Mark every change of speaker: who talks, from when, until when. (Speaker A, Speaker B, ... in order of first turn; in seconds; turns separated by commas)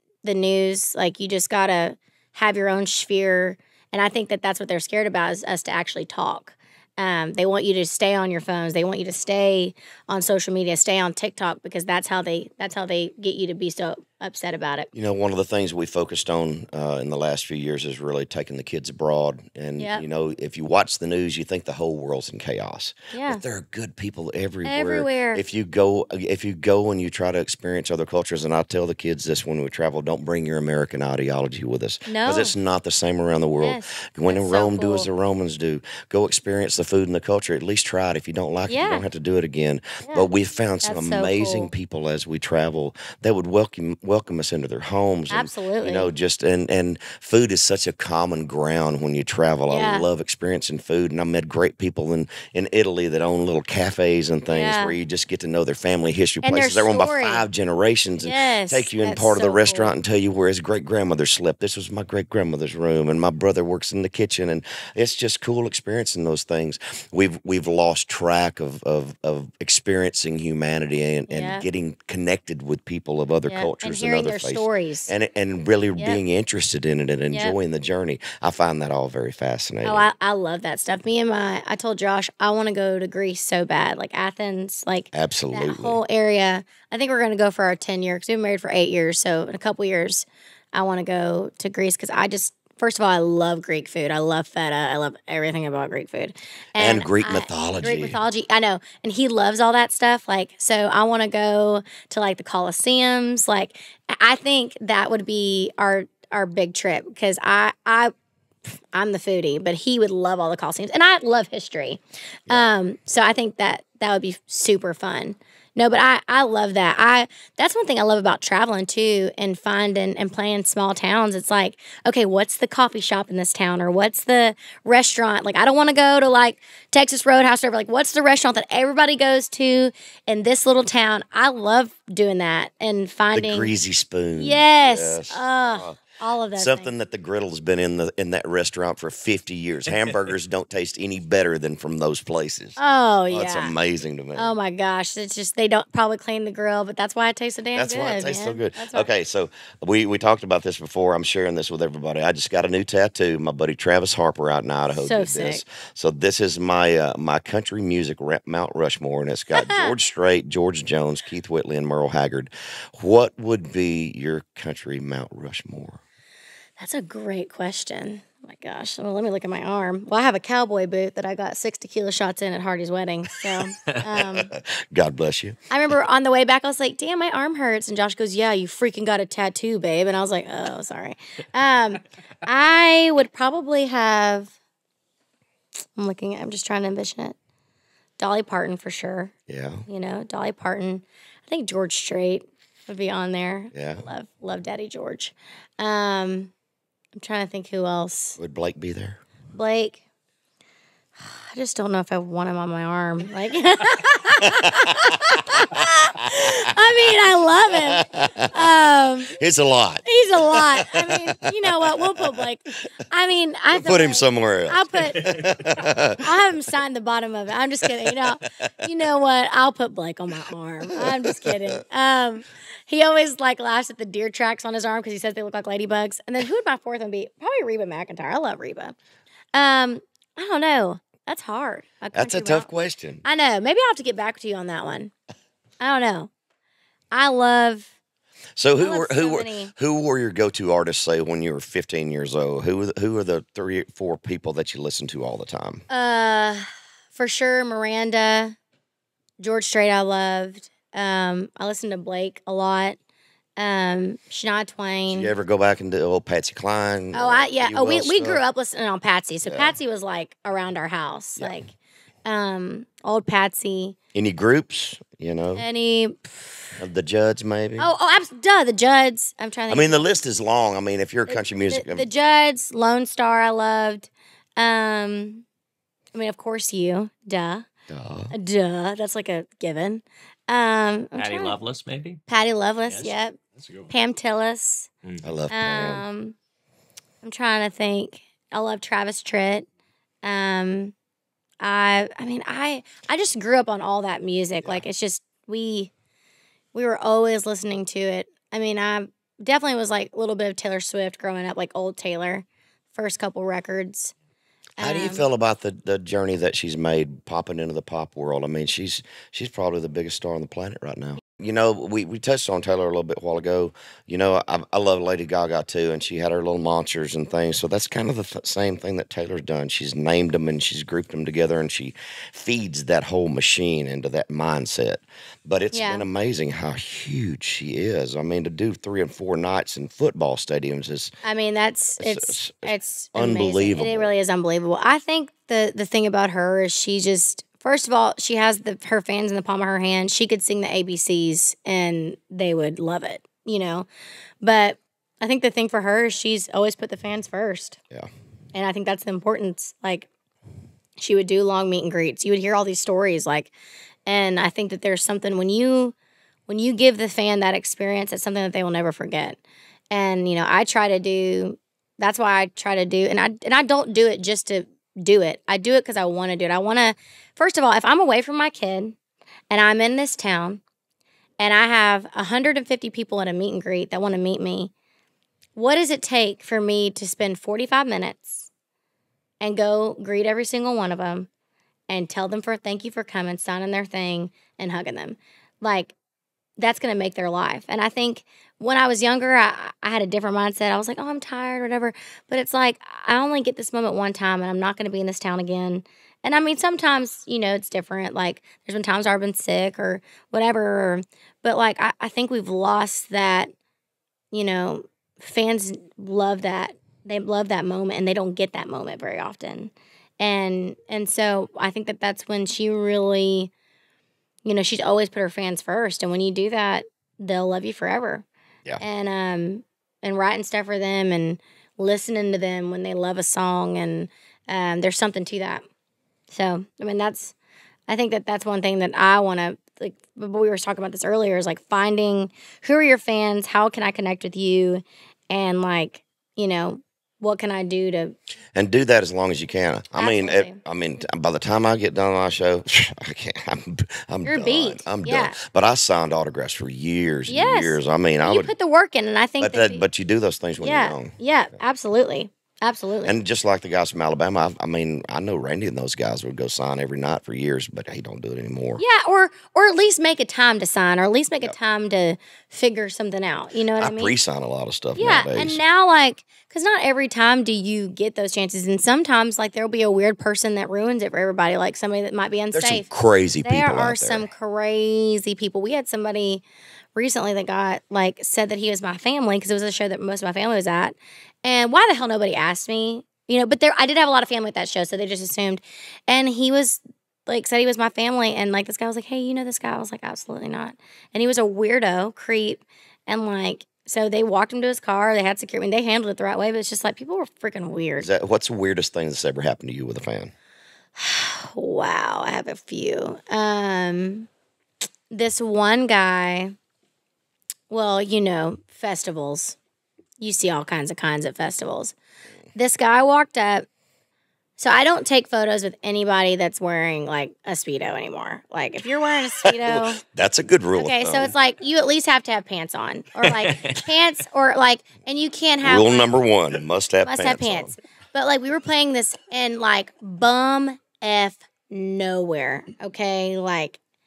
Speaker A: 0.2-14.9, Speaker B: 14.9-80.1, Speaker A: 19.8-20.0, Speaker A: 23.1-23.4, Speaker A: 24.6-25.4, Speaker A: 32.0-32.5, Speaker A: 33.6-35.1, Speaker A: 38.7-39.0, Speaker A: 40.8-41.7, Speaker A: 45.3-46.1, Speaker A: 49.7-50.0, Speaker A: 54.5-55.0, Speaker A: 56.4-57.4, Speaker A: 58.2-59.9, Speaker A: 71.3-71.6, Speaker A: 73.5-75.1, Speaker A: 79.8-108.1, Speaker B: 85.1-86.0, Speaker B: 96.8-98.2, Speaker A: 108.9-133.7, Speaker B: 133.3-136.0, Speaker A: 134.4-136.9, Speaker B: 136.6-142.8, Speaker A: 142.8-143.7, Speaker B: 143.3-144.5, Speaker A: 144.3-149.1, Speaker B: 147.7-166.0, Speaker A: 154.9-155.6, Speaker A: 159.5-159.9, Speaker A: 166.8-174.5, Speaker B: 174.1-175.6, Speaker A: 175.7-184.5, Speaker A: 186.0-187.3, Speaker A: 188.2-189.3, Speaker B: 189.5-189.8, Speaker A: 189.9-196.5, Speaker B: 193.7-194.0, Speaker A: 197.1-198.4, Speaker B: 198.4-199.2, Speaker A: 199.5-200.0, Speaker A: 201.2-209.4, Speaker B: 204.5-206.5, Speaker B: 207.7-208.8, Speaker B: 209.3-212.4, Speaker A: 210.1-215.4, Speaker B: 213.7-216.2, Speaker A: 216.2-228.9, Speaker B: 217.9-218.8, Speaker B: 220.9-221.6, Speaker A: 229.5-232.7, Speaker B: 232.1-233.2, Speaker A: 233.2-235.1, Speaker A: 235.8-236.3, Speaker A: 237.1-237.9, Speaker B: 238.6-245.8, Speaker A: 238.8-239.7, Speaker A: 245.9-248.6, Speaker A: 249.4-253.0, Speaker A: 253.6-255.3, Speaker B: 255.1-258.4, Speaker A: 257.1-261.7, Speaker B: 259.4-259.8, Speaker A: 262.2-263.9, Speaker B: 264.1-265.6, Speaker A: 265.6-266.7, Speaker B: 266.8-267.9, Speaker A: 267.8-270.0, Speaker B: 269.7-272.1, Speaker A: 271.3-275.4, Speaker A: 276.1-277.7, Speaker B: 277.9-278.3, Speaker A: 278.3-281.6, Speaker C: 281.1-282.2, Speaker A: 282.3-284.9, Speaker C: 282.9-283.9, Speaker B: 285.2-286.0, Speaker A: 285.5-286.4, Speaker A: 287.2-289.6, Speaker A: 290.2-290.9, Speaker A: 291.6-295.9, Speaker A: 296.7-304.1, Speaker A: 304.8-305.2, Speaker B: 304.8-331.1, Speaker A: 325.7-326.0, Speaker A: 331.2-343.9, Speaker B: 332.0-334.1, Speaker A: 344.4-347.8, Speaker A: 348.5-350.1, Speaker A: 351.0-353.5, Speaker A: 354.1-355.9, Speaker A: 356.5-359.4, Speaker A: 359.9-368.9, Speaker A: 369.5-370.6, Speaker A: 371.4-374.7, Speaker A: 375.6-378.5, Speaker A: 379.4-381.3, Speaker A: 381.9-385.9, Speaker A: 386.6-403.5, Speaker A: 404.3-413.5, Speaker A: 414.4-418.2, Speaker A: 418.8-425.6, Speaker A: 426.3-427.3, Speaker A: 427.9-438.1, Speaker B: 438.5-448.5, Speaker A: 440.0-440.6, Speaker A: 444.2-445.4, Speaker A: 447.3-449.8, Speaker B: 449.4-451.1, Speaker A: 450.6-453.1, Speaker B: 453.0-458.8, Speaker A: 458.8-464.1, Speaker B: 463.8-465.6, Speaker A: 464.9-472.9, Speaker B: 472.5-474.3, Speaker A: 473.4-476.4, Speaker A: 476.9-498.1, Speaker B: 498.0-500.3, Speaker A: 500.9-504.3, Speaker A: 505.1-506.5, Speaker A: 507.7-509.6, Speaker A: 510.2-511.9, Speaker A: 512.5-513.7, Speaker A: 514.6-520.0, Speaker B: 519.5-521.3, Speaker A: 520.8-526.1, Speaker B: 525.6-527.7, Speaker A: 527.0-533.8